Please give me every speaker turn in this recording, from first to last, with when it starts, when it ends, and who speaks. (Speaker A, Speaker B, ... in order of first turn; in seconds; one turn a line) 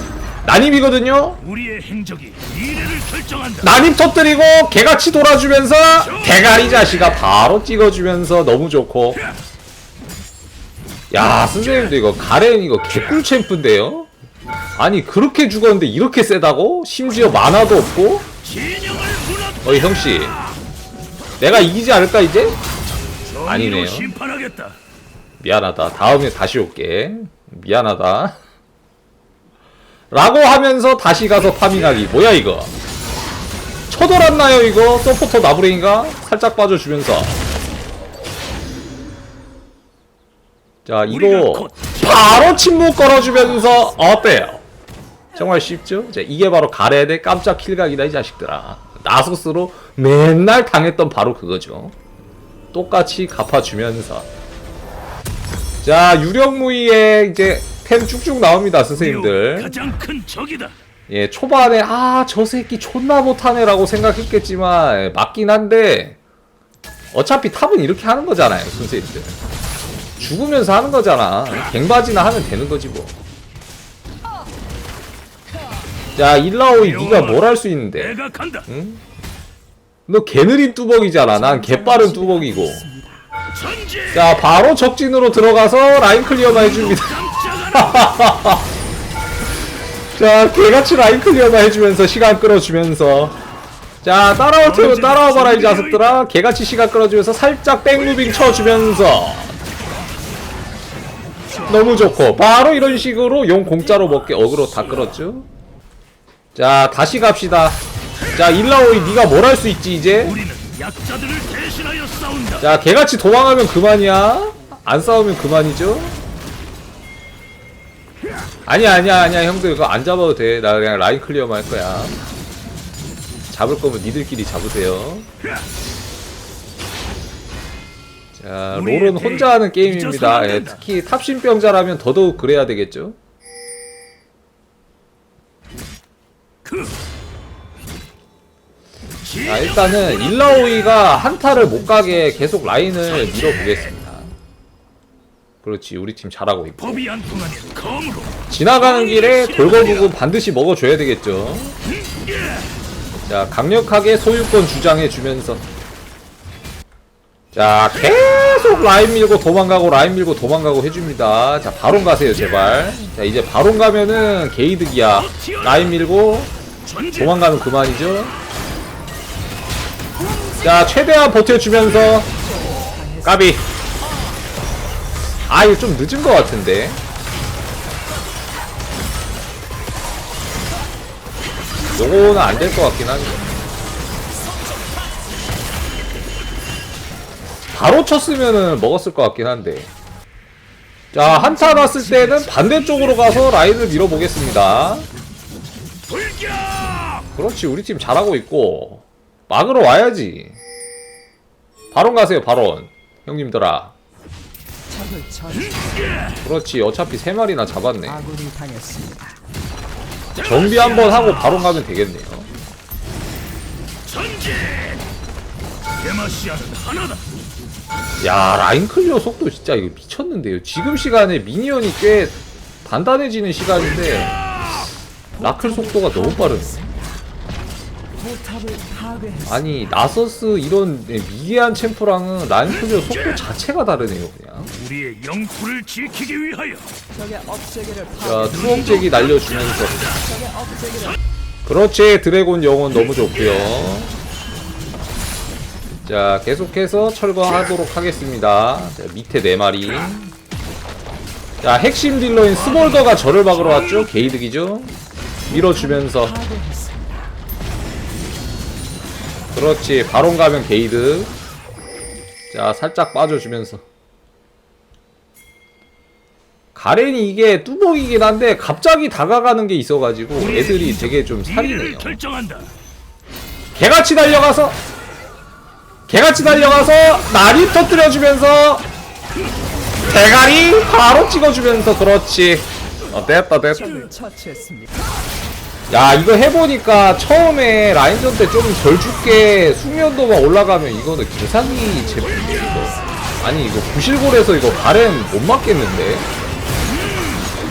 Speaker A: 0.4-1.4
Speaker B: 1.4-3.8
Speaker A: 3.6-9.2
Speaker B: 6.0-6.9
Speaker A: 11.1-14.1
Speaker A: 14.8-18.2
Speaker B: 18.4-20.4
Speaker A: 19.6-20.4
Speaker A: 21.4-22.6
Speaker B: 23.2-24.8
Speaker A: 23.4-24.1
Speaker A: 25.4-28.4
Speaker A: 30.1-32.7
Speaker A: 33.9-37.3
Speaker A: 40.9-44.6
Speaker B: 41.1-42.7
Speaker A: 45.3-51.9
Speaker A: 52.7-54.3
Speaker A: 55.8-59.8
Speaker B: 59.0-60.7
Speaker A: 61.1-66.2
Speaker A: 67.1-69.4
Speaker A: 70.2-73.1
Speaker A: 76.2-78.2
Speaker B: 76.8-77.5
Speaker B: 78.0-78.6
Speaker A: 78.7-79.0
Speaker A: 80.1-82.8
Speaker C: 81.3-83.3
Speaker B: 83.5-84.3
Speaker A: 84.1-87.2
Speaker B: 86.5-88.0
Speaker A: 87.7-88.7
Speaker A: 90.1-93.4
Speaker A: 94.0-99.5
Speaker B: 94.6-96.2
Speaker A: 101.7-105.5
Speaker A: 106.5-107.8
Speaker A: 108.3-110.4
Speaker B: 110.3-112.6
Speaker A: 112.6-116.2
Speaker A: 118.7-122.2
Speaker A: 123.5-125.3
Speaker A: 128.3-133.2
Speaker B: 128.7-130.8
Speaker B: 136.7-136.9
Speaker B: 139.2-140.0
Speaker A: 139.4-144.3
Speaker C: 141.3-142.9
Speaker B: 143.1-143.8
Speaker A: 145.6-147.1
Speaker B: 146.8-150.1
Speaker A: 148.5-151.8
Speaker B: 152.1-152.6
Speaker A: 153.3-155.6
Speaker A: 157.5-166.5
Speaker B: 165.2-165.9
Speaker B: 166.8-167.3
Speaker A: 167.1-168.3
Speaker C: 170.3-170.7
Speaker A: 170.6-172.3
Speaker C: 172.2-173.4
Speaker A: 173.2-173.6
Speaker A: 175.5-177.0
Speaker A: 181.9-183.4
Speaker A: 187.7-189.9
Speaker A: 191.1-195.1
Speaker C: 191.2-195.0
Speaker B: 196.1-197.2
Speaker A: 197.3-200.6
Speaker A: 201.9-203.9
Speaker C: 204.9-206.1
Speaker A: 206.4-208.2
Speaker C: 208.1-209.4
Speaker A: 210.3-212.5
Speaker B: 210.4-211.6
Speaker B: 214.1-215.0
Speaker B: 216.0-217.2
Speaker A: 218.2-224.5
Speaker C: 225.3-227.1
Speaker A: 225.4-226.8
Speaker C: 228.2-229.6
Speaker A: 229.4-234.7
Speaker B: 234.7-236.9
Speaker C: 237.1-238.6
Speaker A: 238.2-240.1
Speaker B: 238.6-239.9
Speaker C: 240.1-241.2
Speaker A: 241.7-244.1
Speaker A: 246.0-250.3
Speaker A: 251.6-254.9
Speaker B: 252.7-254.2
Speaker A: 255.5-256.4
Speaker C: 255.5-257.3
Speaker A: 259.5-261.3
Speaker A: 262.5-263.8
Speaker A: 266.7-272.2
Speaker B: 270.4-272.7
Speaker A: 273.7-274.8
Speaker A: 276.1-278.8
Speaker A: 280.1-284.1
Speaker C: 283.8-284.9
Speaker A: 285.9-296.3
Speaker C: 292.0-293.2